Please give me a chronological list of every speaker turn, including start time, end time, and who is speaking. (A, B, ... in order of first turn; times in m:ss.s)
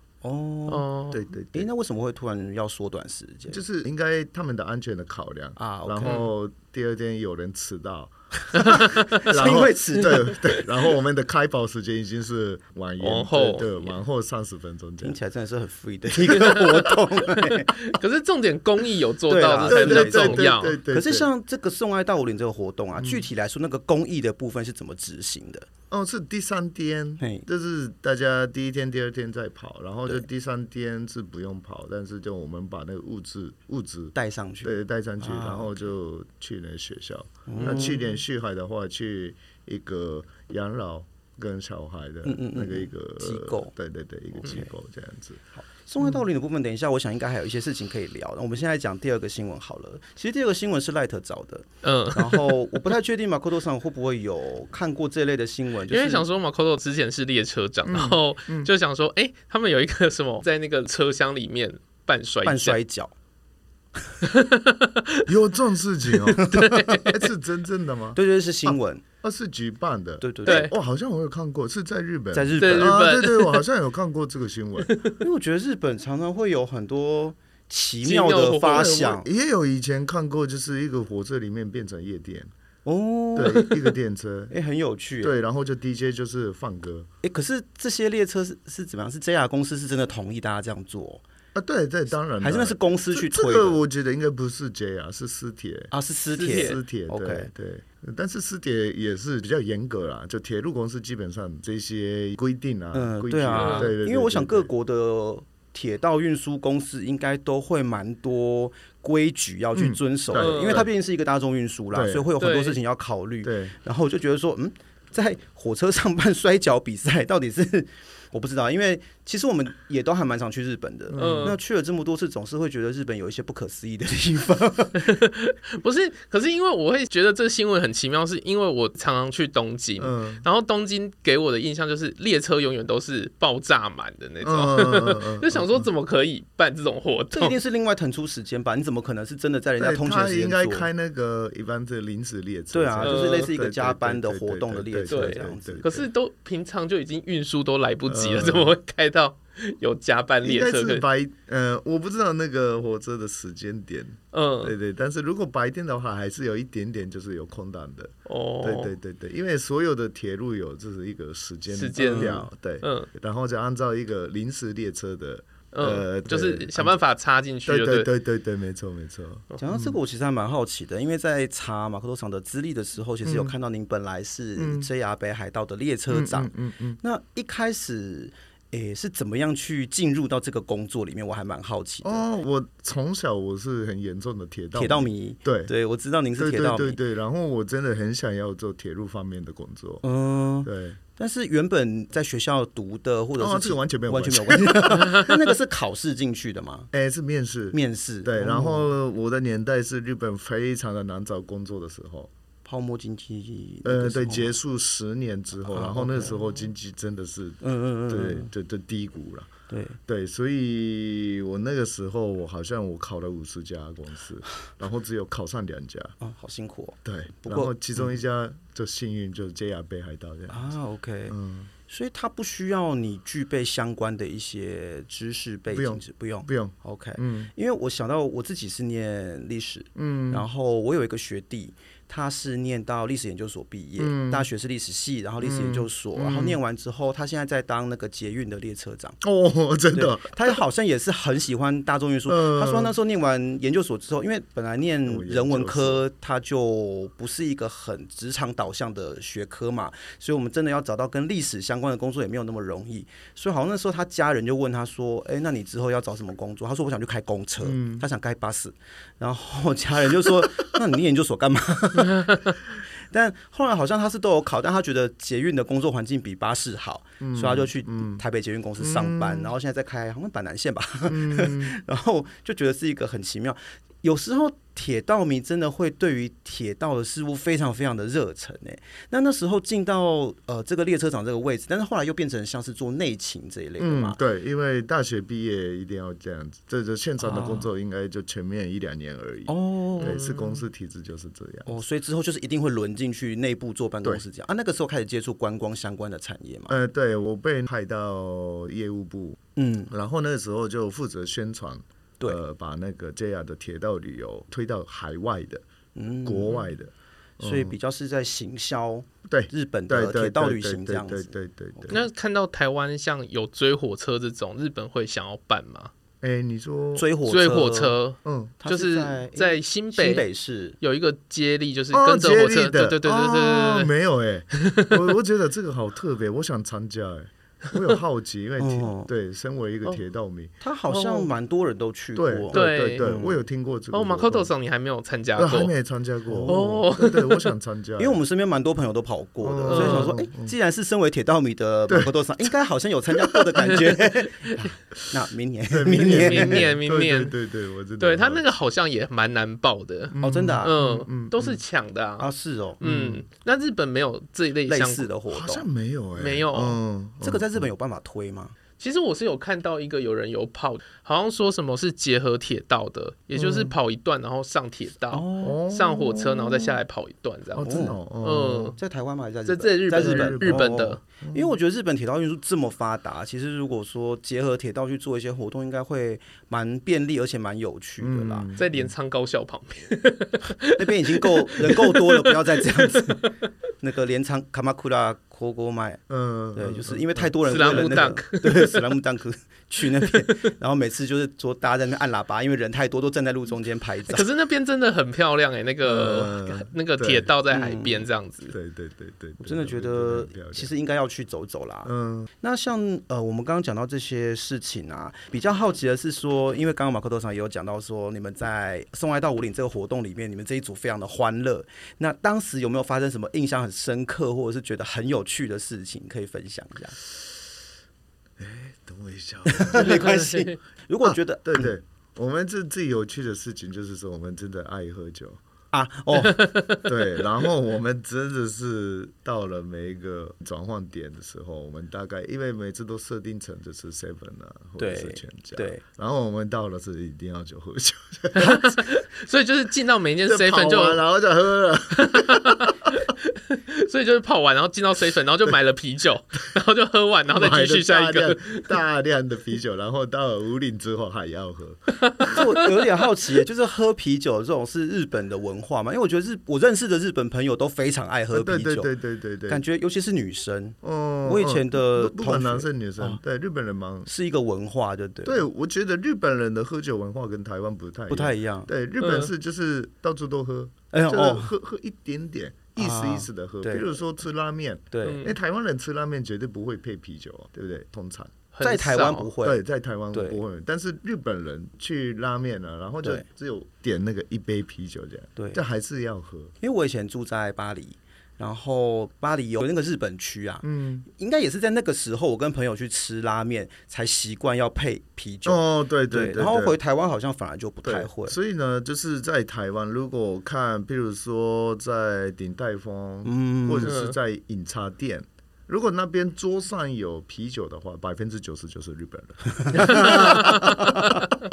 0:00.2-0:00.9 A
0:00.7-0:01.2 B
0:01.1-0:01.7 C
0:01.5-0:03.6 A
0:03.5-0:15.2 C
0:05.6-0:06.2 A
0:06.0-0:06.3 B
0:08.5-0:09.2 B
0:09.2-0:10.6 A
0:13.0-0:13.9 B
0:15.0-0:17.9 A
0:16.4-0:16.6 B
0:17.4-0:20.8 B
0:19.3-0:25.7 A
0:19.7-0:21.3 C
0:23.0-0:23.3 C
0:25.9-0:45.4 C
0:27.2-0:27.5 A
0:34.2-0:35.7 A
0:37.5-0:38.1 A
0:37.6-0:37.9 B
0:42.3-0:43.7 A
0:44.4-0:44.7 A
0:45.6-0:56.2 A
0:51.8-0:52.6 B
0:55.9-1:02.8 B
0:57.9-0:58.7 C
1:02.4-1:03.1 A
1:04.2-1:05.3 B
1:05.3-1:08.2 C
1:06.3-1:07.1 A
1:06.5-1:07.1 B
1:08.2-1:09.0 A
1:09.2-1:14.9 C
1:10.2-1:10.7 A
1:10.4-1:10.7 B
1:12.3-1:13.1 A
1:12.6-1:13.6 B
1:14.9-1:15.2 B
1:15.2-1:19.3 A
1:18.0-1:19.0 B
1:18.7-1:22.5 C
1:22.8-1:23.7 A
1:23.4-1:24.5 C
1:24.5-1:25.4 A
1:25.2-1:27.1 C
1:27.2-1:31.2 A
1:31.6-1:35.9 C
1:32.4-1:33.8 A
1:35.9-1:37.5 A
1:36.3-1:36.8 B
1:36.4-1:44.7 C
1:42.9-2:05.2 A
1:43.6-1:43.9 B
1:49.8-1:50.9 C
1:50.4-1:50.9 B
1:51.9-1:52.3 C
1:52.4-1:52.8 B
1:53.4-1:53.8 C
2:01.1-2:01.6 C
2:01.2-2:01.6 B
2:05.0-2:17.6 B
2:10.0-2:10.4 C
2:14.4-2:15.9 C
2:17.3-2:20.9 A
2:19.8-2:26.1 C
2:22.7-2:25.9 A
2:23.0-2:23.5 B
2:25.1-2:31.0 B
2:28.1-2:28.8 C
2:30.4-2:47.0 C
2:34.3-2:34.8 B
2:38.3-2:38.9 B
2:41.7-2:43.1 B
2:42.0-2:42.4 A
2:45.7-2:48.1 B
2:47.7-2:50.0 C
2:49.6-3:02.2 A
2:53.2-2:53.5 C
2:54.6-2:54.9 C
2:56.1-2:57.0 C
3:02.0-3:05.7 C
3:04.8-3:07.0 A
3:06.4-3:10.0 C
3:10.0-3:16.9 A
3:10.6-3:11.0 C
3:13.4-3:15.6 C
3:16.9-3:22.3 C
3:17.7-3:18.9 A
3:22.6-3:24.6 A
3:23.8-3:29.5 C
3:25.7-3:26.4 A
3:27.6-3:28.5 A
3:29.7-3:30.0 A
3:30.1-3:36.2 C
3:36.2-3:38.2 A
3:37.0-3:40.8 C
3:40.5-3:41.4 A
3:41.3-3:41.7 C
3:41.9-3:59.2 A
3:45.7-3:47.5 C
3:50.0-3:50.5 C
3:54.0-3:54.5 C
3:55.4-3:56.6 C
3:59.2-4:00.6 C
3:59.9-4:44.2 A
4:02.3-4:03.0 C
4:05.1-4:06.0 C
4:17.6-4:18.0 C
4:27.2-4:28.2 C
4:28.8-4:29.5 C
4:31.1-4:31.8 C
4:43.8-4:51.8 C
4:47.2-4:47.7 A
4:49.5-4:50.2 A
4:50.0-4:50.6 B
4:51.7-4:56.8 A
4:56.7-5:05.6 C
4:59.6-4:59.9 A
5:06.0-5:06.7 A
5:06.2-5:07.8 C
5:07.4-5:12.0 A
5:09.3-5:12.0 C
5:11.9-5:15.9 B
5:16.2-5:17.1 C
5:17.0-5:18.0 A
5:17.3-5:20.2 B
5:18.2-5:18.6 C
5:18.6-5:20.8 A
5:20.8-5:23.9 B
5:21.9-5:30.5 C
5:24.6-5:24.9 B
5:28.6-5:29.1 A
5:30.6-5:33.4 A
5:30.9-5:31.3 B
5:32.2-5:34.5 C
5:32.5-5:33.1 B
5:33.9-5:35.7 B
5:35.4-5:38.2 C
5:36.3-5:36.7 A
5:36.5-5:37.5 B
5:38.0-5:46.7 A
5:39.4-5:40.5 C
5:39.7-5:40.2 B
5:41.9-5:42.1 C
5:43.1-5:43.7 C
5:45.7-5:48.4 C
5:46.0-5:47.3 B
5:48.0-5:52.3 B
5:50.1-5:51.6 C
5:50.2-5:50.8 A
5:52.2-5:52.8 A
5:52.8-5:55.1 B
5:52.8-5:53.2 C
5:54.7-5:55.7 A
5:55.3-5:57.7 C
5:56.2-5:56.8 B
5:57.2-5:58.6 A
5:58.8-6:08.8 B
6:03.4-6:03.8 C
6:05.1-6:05.6 A
6:05.4-6:06.8 C
6:07.5-6:08.8 C
6:07.6-6:08.0 A
6:08.8-6:18.5 A
6:09.5-6:11.0 B
6:09.9-6:11.6 C
6:18.0-6:18.9 C
6:18.6-6:23.3 B
6:20.7-6:26.0 A
6:26.1-6:28.1 C
6:26.6-6:34.3 A
6:27.5-6:28.9 B
6:30.0-6:30.5 B
6:34.1-6:38.6 B
6:35.8-6:37.3 C
6:37.5-6:38.1 A
6:38.5-6:40.7 C
6:39.4-6:57.0 A
6:41.8-6:42.3 C
6:58.4-7:00.1 C
6:59.5-7:01.7 A
6:59.8-7:00.6 B
7:01.0-7:05.4 C
7:05.7-7:06.5 A
7:06.3-7:06.8 B
7:06.8-7:18.8 C
7:14.8-7:15.8 A
7:18.4-7:21.0 B
7:20.3-7:22.9 C
7:22.0-7:28.7 B
7:27.3-7:32.4 C
7:32.1-7:32.5 B
7:32.3-7:38.9 A
7:38.3-7:39.6 C
7:39.5-7:43.2 A
7:40.8-7:44.1 C
7:44.1-7:45.4 A
7:45.2-7:58.3 C
7:48.1-7:48.7 A
7:49.0-7:49.3 B
7:50.9-7:51.5 A
7:52.8-7:53.9 A
7:54.9-7:55.2 A
7:55.0-7:55.4 B
7:58.5-7:59.3 B
7:58.6-8:00.4 A
7:59.4-8:06.5 C
8:05.4-8:05.6 A
8:06.6-8:18.4 A
8:10.6-8:11.1 C
8:15.4-8:16.8 C
8:17.8-8:31.2 C
8:23.2-8:24.0 A
8:23.8-8:24.1 B
8:29.6-8:31.3 A
8:29.9-8:31.0 B